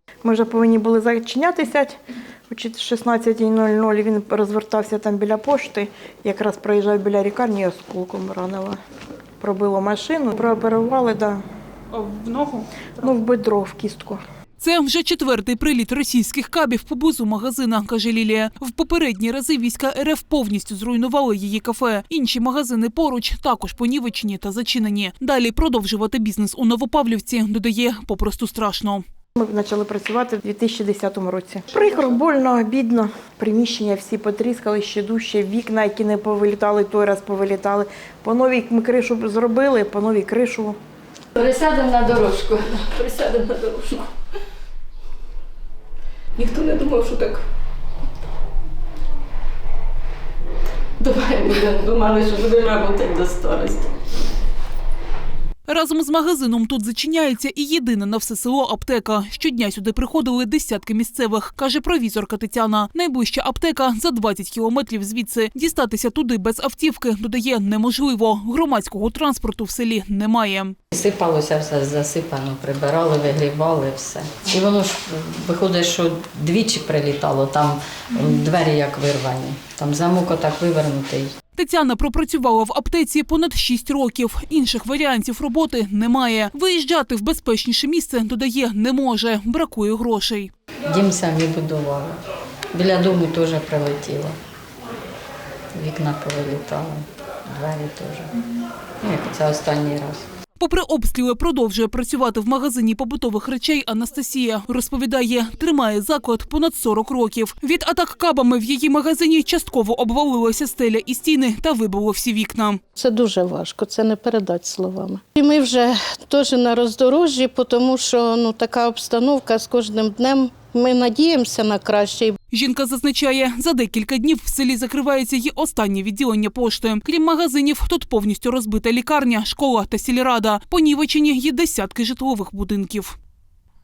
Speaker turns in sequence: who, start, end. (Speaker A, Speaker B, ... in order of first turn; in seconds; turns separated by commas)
Speaker A: 0.2-2.0, Speaker A: 2.5-8.8, Speaker A: 9.4-11.4, Speaker B: 11.9-13.1, Speaker A: 13.0-14.2, Speaker B: 14.6-29.0, Speaker A: 29.4-40.8, Speaker C: 41.3-44.1, Speaker C: 46.4-47.4, Speaker C: 51.0-53.9, Speaker B: 55.7-70.8, Speaker D: 70.9-81.3, Speaker B: 81.5-90.5, Speaker D: 90.8-92.2, Speaker D: 92.7-94.3, Speaker D: 95.7-98.3, Speaker D: 99.0-100.2, Speaker B: 100.6-112.8, Speaker E: 113.0-122.4, Speaker B: 122.5-133.2